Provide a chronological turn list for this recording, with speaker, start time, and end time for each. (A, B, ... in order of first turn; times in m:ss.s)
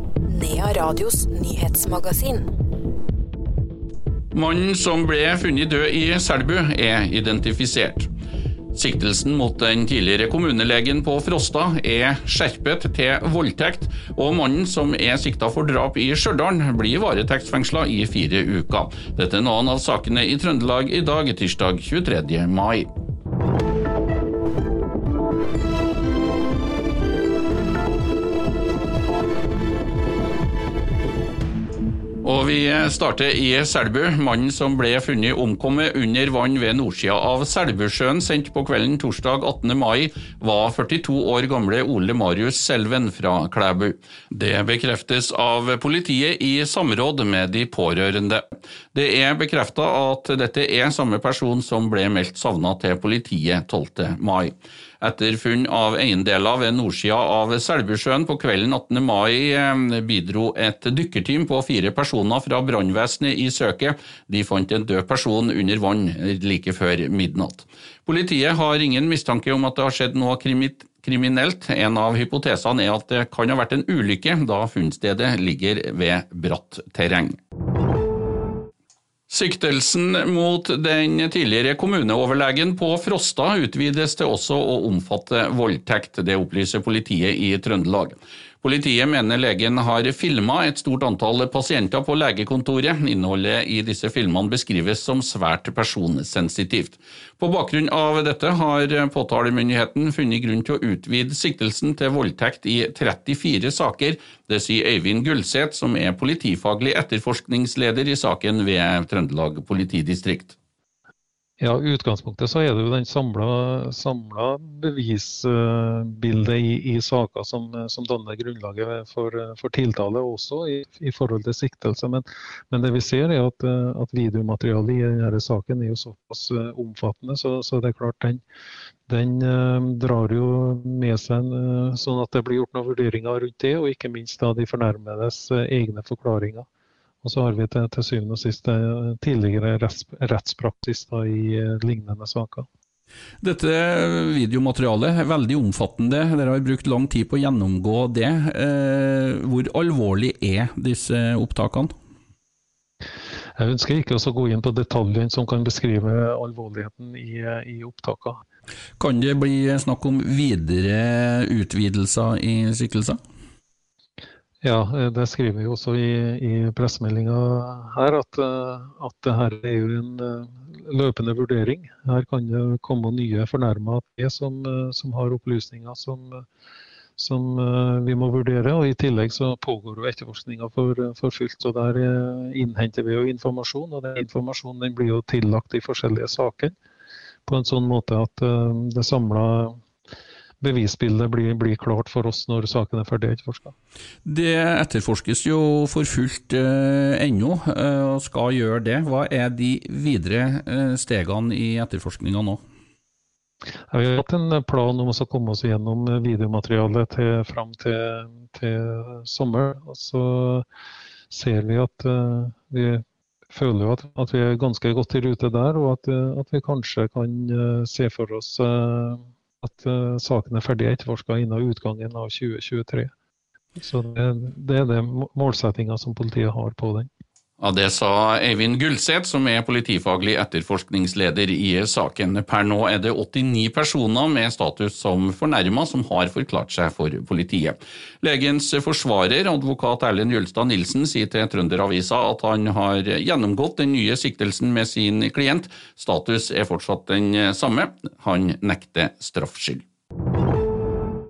0:00.2-0:02.5 A
0:04.3-0:08.1 B
0:08.7-0:22.9 B
0:32.2-1:17.4 B
1:19.3-1:50.5 B
1:51.6-2:08.4 C
2:09.1-2:16.6 C
2:17.2-2:22.7 C
2:23.4-2:31.9 B
2:33.6-2:38.4 C
2:39.0-2:43.2 B
2:44.6-2:56.4 C
2:57.2-3:06.7 C
3:07.4-3:09.8 C
3:10.6-3:13.7 C
3:14.2-3:22.6 B
3:23.9-3:30.6 C
3:31.3-3:43.1 C
3:43.8-3:47.1 C
3:47.6-4:09.8 B